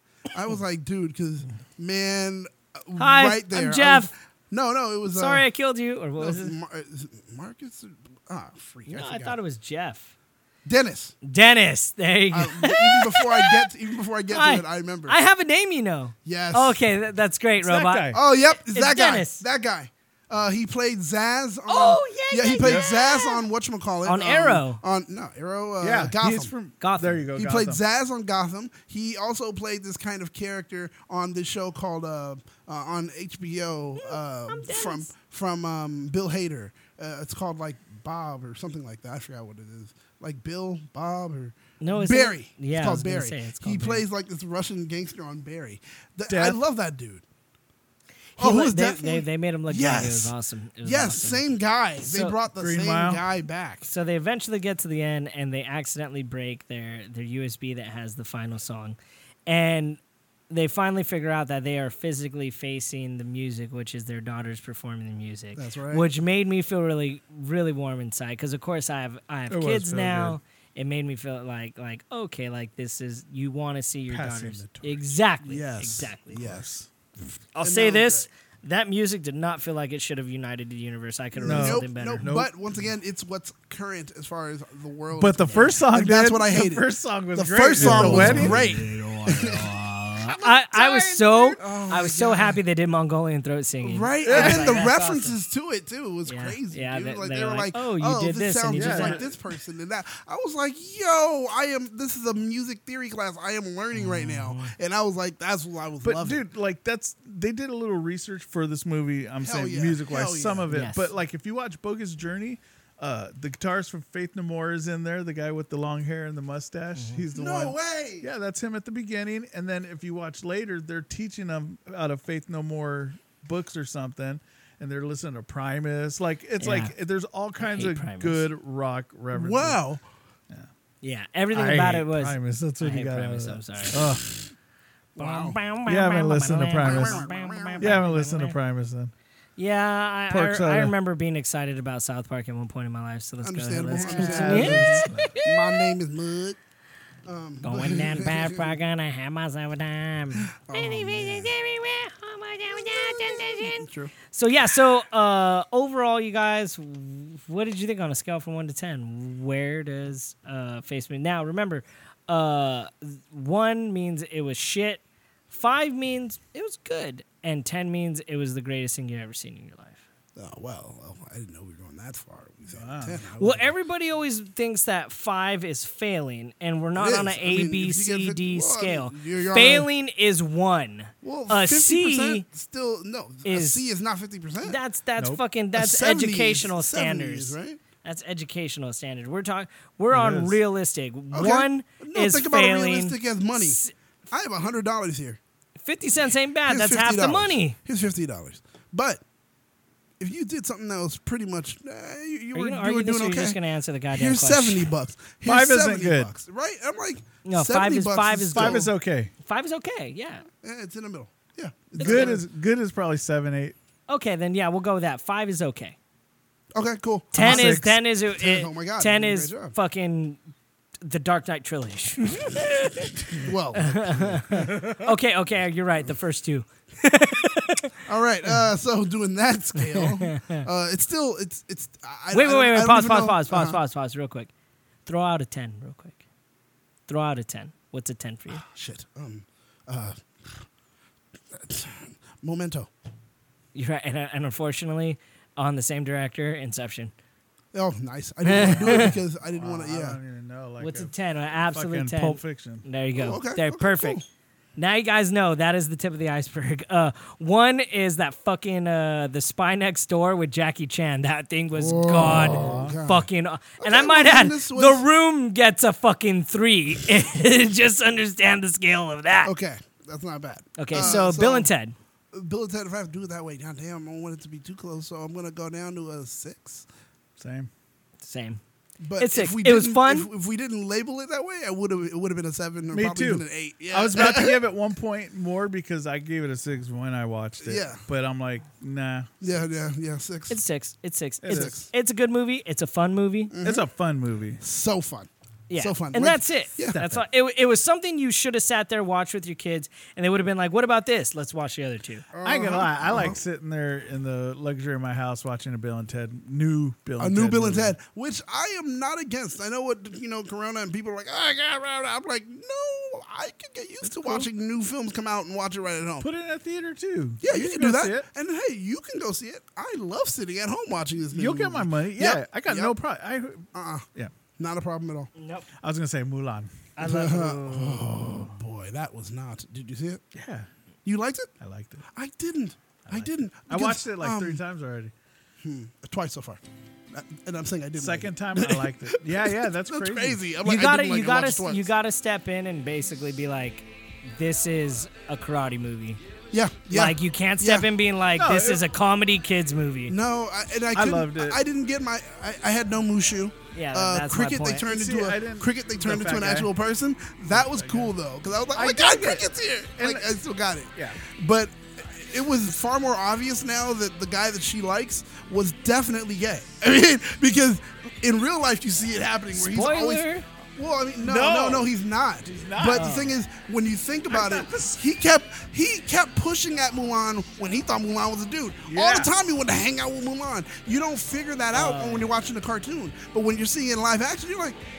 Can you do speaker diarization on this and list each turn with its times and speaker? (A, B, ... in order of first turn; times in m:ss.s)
0:00.3-0:05.4 A
0:03.0-0:04.1 B
0:05.1-0:06.5 B
0:06.2-0:09.4 A
0:08.9-0:10.1 B
0:10.6-0:11.2 A
0:11.2-0:13.6 B
0:12.3-0:15.2 A
0:14.3-0:18.2 B
0:16.2-0:16.8 A
0:17.6-0:18.2 C
0:18.1-0:26.5 A
0:18.7-0:19.4 B
0:21.7-0:23.4 B
0:22.6-0:22.9 C
0:24.0-0:24.8 B
0:25.8-0:27.8 C
0:26.8-0:27.3 B
0:27.3-0:47.2 A
0:34.0-0:35.1 B
0:41.8-0:44.0 B
0:46.3-0:46.6 C
0:48.4-0:52.4 B
0:48.4-0:53.9 A
0:52.6-0:53.2 C
0:53.8-1:16.6 B
1:05.6-1:06.1 A
1:09.5-1:10.4 C
1:14.1-1:15.3 C
1:15.4-1:16.6 A
1:16.4-1:16.9 C
1:17.5-1:22.3 B
1:17.6-1:18.3 A
1:21.3-1:29.7 A
1:21.4-1:22.5 C
1:25.1-1:31.6 C
1:27.8-1:28.6 B
1:30.2-1:35.3 B
1:31.6-1:32.6 A
1:33.8-1:46.4 A
1:34.2-1:34.9 C
1:36.2-1:39.2 B
1:38.7-1:39.3 C
1:43.9-1:44.7 B
1:46.0-2:09.8 C
1:49.4-1:50.7 A
1:50.7-1:51.1 B
1:57.0-1:57.2 B
1:57.3-1:58.2 A
2:06.6-2:06.9 B
2:07.6-2:08.4 B
2:09.3-2:10.0 A
2:11.0-2:14.0 B
2:11.5-2:14.3 C
2:15.1-2:15.6 A
2:15.2-2:18.6 B
2:15.8-2:17.2 C
2:16.8-2:18.0 A
2:17.8-2:19.1 C
2:19.6-2:25.9 B
2:20.3-2:21.0 C
2:23.4-2:26.6 A
2:24.0-2:25.4 C
2:27.2-2:28.7 A
2:27.6-2:50.0 B
2:30.4-2:31.5 A
2:32.9-2:34.1 A
2:50.4-2:53.7 A
2:52.7-2:53.2 C
2:53.4-3:02.4 B
2:57.0-2:59.9 A
3:01.2-3:04.8 A
3:03.4-3:03.8 B
3:04.6-3:13.9 B
3:05.7-3:07.8 A
3:10.1-3:10.6 C
3:11.3-3:15.4 A
3:15.8-3:17.8 B
3:16.7-3:19.2 A
3:20.2-3:23.6 A
3:22.5-3:24.8 B
3:24.1-3:28.9 A
3:25.4-3:26.3 C
3:27.4-3:28.9 B
3:28.5-3:29.3 C
3:29.4-3:30.4 B
3:30.6-3:32.4 A
3:32.0-3:32.4 B
3:32.0-3:33.8 C
3:34.1-3:36.0 B
3:36.7-3:39.7 A
3:37.3-3:40.4 B
3:37.3-3:38.0 C
3:41.0-3:43.1 B
3:43.4-3:44.7 A
3:43.8-3:47.9 B
3:44.6-3:45.0 C
3:48.0-3:53.8 A
3:49.8-3:50.6 B
3:52.3-3:54.5 B
3:55.0-3:56.2 B
3:57.1-3:58.6 B
3:58.5-4:00.6 A
4:01.5-4:02.9 A
4:03.7-4:07.1 B
4:07.7-4:10.2 A
4:08.4-4:09.1 B
4:08.5-4:12.8 C
4:10.8-4:14.2 B
4:13.1-4:14.2 A
4:14.8-4:29.5 B
4:21.7-4:25.0 A
4:22.2-4:23.0 C
4:29.4-4:31.7 A
4:30.8-4:31.9 B
4:32.3-4:36.8 A
4:37.4-4:37.7 C
4:38.2-4:38.6 B
4:39.0-4:44.6 A
4:39.2-4:40.3 B
4:42.9-4:49.4 C
4:47.6-4:48.0 A
4:49.4-4:50.6 A
4:50.5-4:53.5 B
4:51.4-4:51.8 C
4:51.5-4:51.8 A
4:53.5-4:53.8 A
4:53.6-4:54.6 C
4:54.6-4:57.0 A
4:55.7-5:02.2 B
5:02.3-5:03.4 A
5:02.4-5:07.9 C
5:07.2-5:16.3 A
5:14.0-5:14.5 C
5:16.2-5:18.3 C
5:17.4-5:23.0 A
5:21.3-5:24.3 C
5:23.7-5:25.3 A
5:25.4-5:25.6 B
5:25.8-5:26.9 C
5:27.0-5:28.1 B
5:27.0-5:30.2 A
5:30.3-5:30.7 C
5:31.0-5:31.5 A
5:31.6-5:32.0 C
5:32.1-5:34.6 A
5:33.1-5:35.1 C
5:35.6-5:41.9 A
5:38.0-5:40.4 C
5:40.6-5:46.2 B
5:46.5-5:47.9 A
5:46.9-5:50.1 B
5:48.4-5:48.8 C
5:50.1-6:24.8 A
5:50.9-5:51.6 C
5:53.7-5:54.9 B
5:54.9-5:56.7 C
5:57.5-5:58.1 C
5:58.7-5:59.4 C
6:00.0-6:00.3 C
6:09.5-6:10.4 B
6:11.2-6:11.9 C
6:12.5-6:13.2 C
6:12.9-6:13.3 B
6:14.3-6:15.0 C
6:18.8-6:19.3 C
6:21.8-6:22.1 B